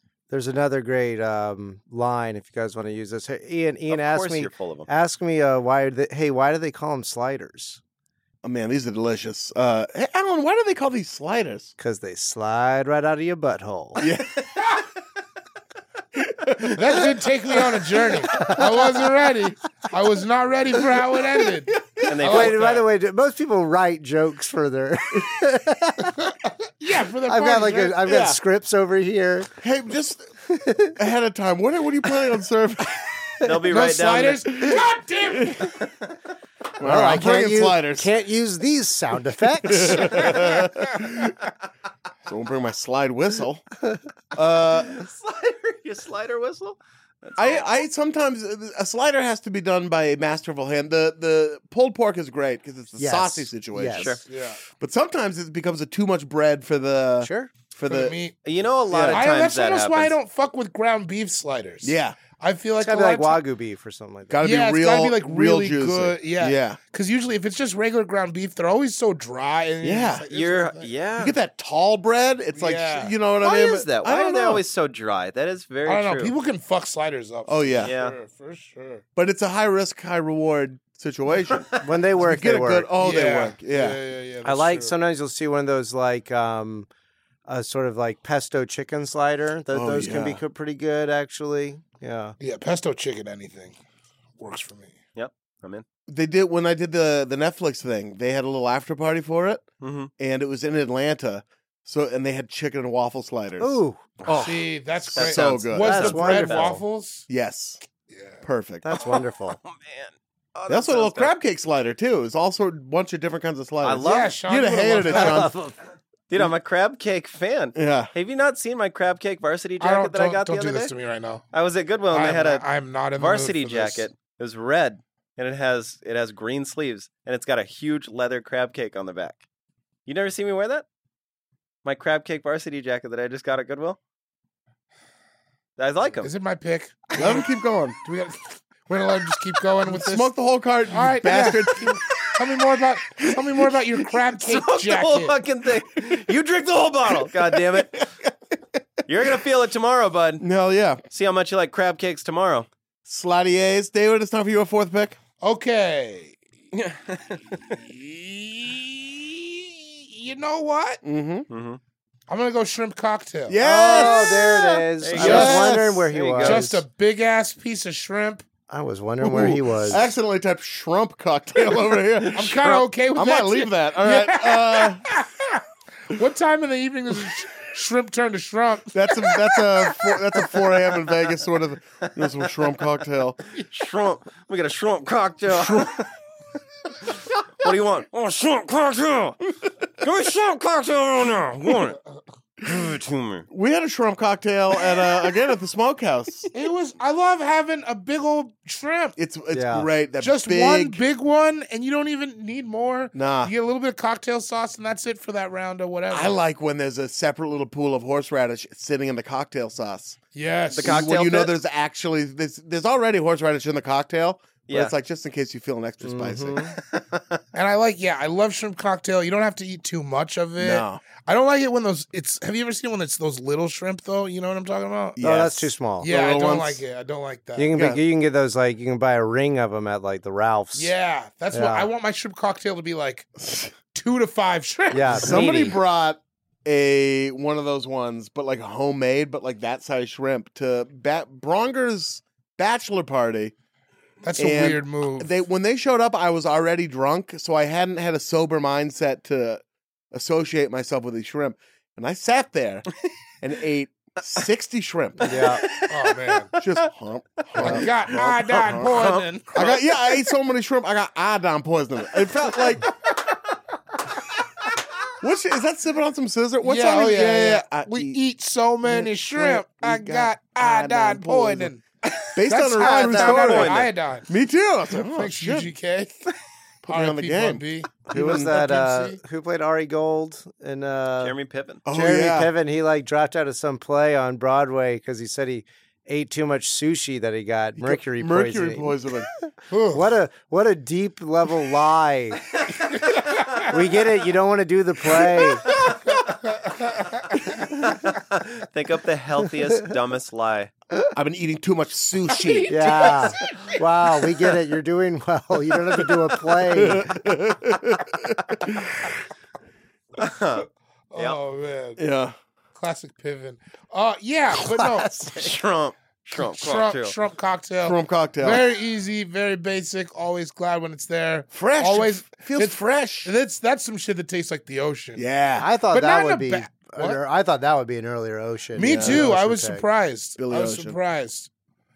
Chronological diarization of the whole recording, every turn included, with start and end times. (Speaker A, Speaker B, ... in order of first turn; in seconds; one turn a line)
Speaker A: 0.3-7.8
Speaker B: 3.9-4.9
Speaker C: 8.4-11.7
Speaker A: 11.8-14.0
Speaker C: 14.0-14.4
Speaker C: 16.1-17.6
Speaker D: 16.8-22.8
Speaker A: 18.3-18.6
Speaker B: 22.0-22.8
Speaker A: 22.1-26.1
Speaker D: 26.8-28.2
Speaker A: 27.2-29.5
Speaker C: 28.1-28.4
Speaker C: 29.6-30.3
Speaker A: 30.5-30.9
Speaker C: 30.9-33.2
Speaker B: 33.4-34.5
Speaker D: 33.7-35.8
Speaker B: 35.6-36.1
Speaker C: 36.8-38.1
Speaker A: 36.8-40.5
Speaker C: 39.6-41.4
Speaker C: 42.2-43.6
Speaker C: 44.3-45.0
Speaker B: 44.6-47.7
Speaker C: 47.4-54.2
Speaker A: 53.0-54.1
Speaker B: 53.9-54.2
Speaker D: 54.2-54.6
Speaker C: 54.8-58.2
Speaker A: 57.2-57.5
Speaker D: 57.9-58.4
Speaker B: 58.4-60.1
Speaker C: 58.9-59.2
Speaker D: 59.1-63.4
Speaker C: 61.8-62.1
Speaker A: 62.8-64.4
Speaker C: 64.3-66.8
Speaker D: 64.4-70.9
Speaker C: 69.8-70.2
Speaker B: 70.3-71.4
Speaker C: 71.2-74.6
Speaker D: 72.5-73.1
Speaker B: 73.4-76.3
Speaker D: 75.8-79.0
Speaker C: 77.5-77.9
Speaker B: 77.8-78.2
Speaker C: 79.2-81.7
Speaker B: 81.5-82.0
Speaker A: 81.8-82.9
Speaker C: 82.2-84.0
Speaker D: 83.0-84.9
Speaker A: 84.4-86.9
Speaker A: 87.5-92.3
Speaker C: 89.7-90.4
Speaker D: 92.4-93.7
Speaker D: 94.4-94.9
Speaker B: 95.2-95.8
Speaker C: 96.1-99.6
Speaker B: 99.8-100.1
Speaker C: 100.2-106.2
Speaker A: 103.6-104.0
Speaker D: 104.3-107.3
Speaker B: 105.1-106.7
Speaker A: 105.8-106.8
Speaker C: 107.3-107.8
Speaker D: 108.1-108.4
Speaker C: 108.4-108.8
Speaker A: 108.8-109.6
Speaker B: 108.9-111.3
Speaker C: 110.7-115.5
Speaker B: 113.8-114.4
Speaker D: 114.0-115.5
Speaker A: 115.1-115.7
Speaker B: 116.3-120.9
Speaker C: 117.7-118.1
Speaker D: 119.8-121.4
Speaker B: 121.5-122.6
Speaker D: 122.1-124.1
Speaker B: 123.2-129.4
Speaker B: 130.1-130.8
Speaker B: 131.8-134.0
Speaker B: 135.8-136.3
Speaker D: 136.2-137.4
Speaker C: 137.2-138.0
Speaker D: 138.0-140.3
Speaker C: 139.8-142.3
Speaker D: 140.9-145.3
Speaker B: 144.3-148.1
Speaker C: 147.5-148.3
Speaker B: 149.1-150.4
Speaker C: 150.4-151.0
Speaker B: 151.1-152.7
Speaker C: 153.0-155.2
Speaker D: 155.4-156.4
Speaker B: 156.7-157.6
Speaker D: 157.7-161.0
Speaker C: 161.0-161.5
Speaker B: 161.5-161.8
Speaker D: 162.3-163.6
Speaker C: 163.5-166.1
Speaker A: 163.6-166.8
Speaker B: 165.0-166.7
Speaker D: 165.1-165.7
Speaker D: 166.4-168.4
Speaker A: 168.7-170.0
Speaker C: 169.2-175.1
Speaker D: 172.3-180.0
Speaker C: 178.9-183.4
Speaker B: 182.1-182.5
Speaker B: 183.5-186.1
Speaker C: 185.5-185.9
Speaker B: 187.0-189.4
Speaker B: 190.0-192.0
Speaker B: 192.6-193.5
Speaker C: 193.5-196.5
Speaker B: 194.8-195.0
Speaker D: 196.5-199.2
Speaker C: 199.2-201.0
Speaker A: 199.5-199.9
Speaker D: 200.2-206.4
Speaker C: 203.1-203.5
Speaker C: 206.1-210.2
Speaker D: 210.3-211.1
Speaker B: 210.7-211.6
Speaker C: 210.8-216.7
Speaker B: 214.7-214.9
Speaker A: 216.0-216.8
Speaker D: 217.5-225.2
Speaker C: 220.6-221.0
Speaker C: 225.2-226.8
Speaker A: 225.2-226.1
Speaker D: 226.0-227.7
Speaker A: 227.6-230.9
Speaker C: 227.7-228.0
Speaker D: 230.7-233.3
Speaker A: 231.5-231.9
Speaker C: 233.4-233.7
Speaker D: 233.9-235.6
Speaker A: 234.9-235.5
Speaker C: 235.2-243.5
Speaker B: 235.3-235.8
Speaker D: 244.2-245.3
Speaker C: 244.3-252.9
Speaker C: 253.4-255.3
Speaker A: 255.2-255.6
Speaker B: 255.3-256.0
Speaker D: 255.7-256.5
Speaker B: 256.5-256.8
Speaker C: 256.6-258.9
Speaker D: 257.6-259.5
Speaker B: 258.8-260.2
Speaker C: 259.5-262.9
Speaker B: 262.1-263.4
Speaker C: 265.2-268.2
Speaker D: 266.6-274.3
Speaker C: 268.9-271.7
Speaker C: 272.3-275.7
Speaker B: 272.8-273.9
Speaker D: 274.9-276.2
Speaker D: 276.8-279.2
Speaker C: 276.9-278.6
Speaker A: 278.1-281.4
Speaker B: 281.2-281.8
Speaker C: 281.8-282.5
Speaker A: 281.9-288.9
Speaker C: 287.8-289.3
Speaker D: 289.7-290.1
Speaker A: 289.9-292.6
Speaker D: 293.3-293.6
Speaker A: 293.6-295.6
Speaker B: 295.6-296.0
Speaker D: 295.7-297.4
Speaker B: 297.6-300.7
Speaker C: 301.1-302.9
Speaker D: 302.3-303.5
Speaker A: 302.7-307.2
Speaker C: 306.7-309.2
Speaker B: 310.2-311.4
Speaker D: 311.1-312.0
Speaker C: 312.0-312.3
Speaker D: 312.8-315.3
Speaker B: 315.2-317.1
Speaker D: 316.3-325.2
Speaker C: 317.8-318.6
Speaker C: 321.5-323.3
Speaker C: 325.2-325.7
Speaker A: 325.6-329.8
Speaker D: 325.9-327.2
Speaker D: 328.8-331.5
Speaker C: 328.8-329.3
Speaker C: 330.4-331.0